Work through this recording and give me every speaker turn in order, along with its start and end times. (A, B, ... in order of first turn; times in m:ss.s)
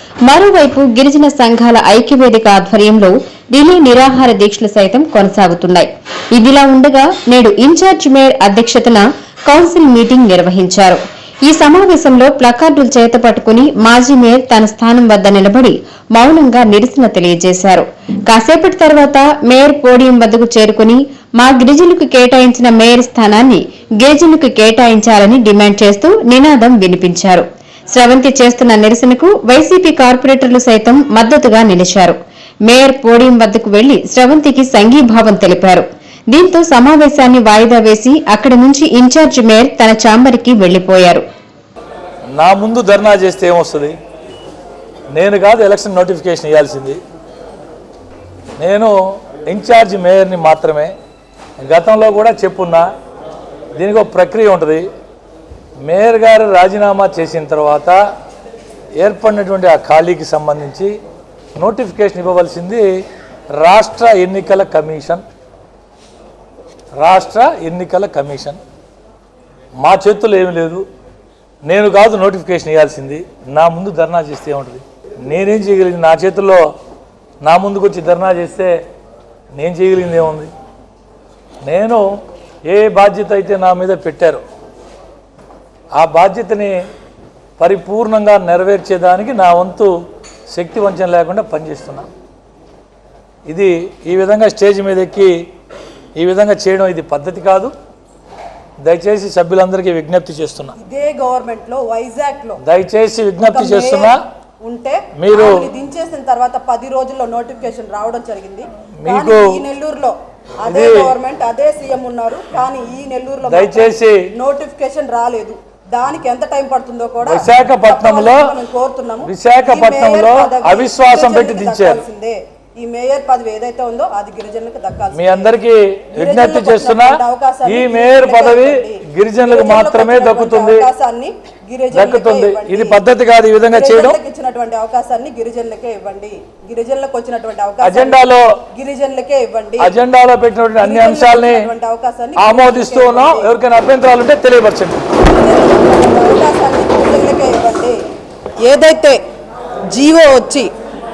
0:00.3-0:41.2 A
0:42.4-0:44.0 B
0:45.1-0:47.0 B
0:48.6-0:48.9 B
0:49.5-0:50.9 B
0:51.6-0:52.9 B
0:53.8-0:54.9 B
0:55.8-0:58.0 B
0:59.0-1:00.9 B
1:01.6-1:02.8 B
1:03.6-1:05.2 B
1:07.0-1:08.6 B
1:09.8-1:10.8 B
1:11.7-1:16.6 B
1:17.4-1:18.8 B
1:19.6-1:20.5 B
1:21.6-1:22.0 B
1:22.7-1:24.4 B
1:26.0-1:26.7 B
1:27.6-1:29.9 B
1:30.5-1:32.1 B
1:33.5-1:35.3 B
1:36.2-1:37.7 B
1:38.8-1:40.7 B
1:40.8-1:42.6 C
1:42.6-1:44.2 B
1:43.4-2:05.6 C
1:45.2-1:45.6 B
1:49.0-1:49.6 B
1:50.7-1:51.1 B
1:53.5-1:54.2 B
1:57.3-1:58.5 B
1:59.3-2:02.0 B
2:05.2-2:10.8 B
2:06.2-2:13.0 C
2:11.9-2:14.2 B
2:13.7-2:19.9 C
2:17.8-2:18.5 B
2:19.8-2:21.7 B
2:20.8-2:23.5 C
2:22.4-2:25.0 B
2:25.2-2:28.0 C
2:28.6-2:29.2 C
2:29.9-2:30.7 C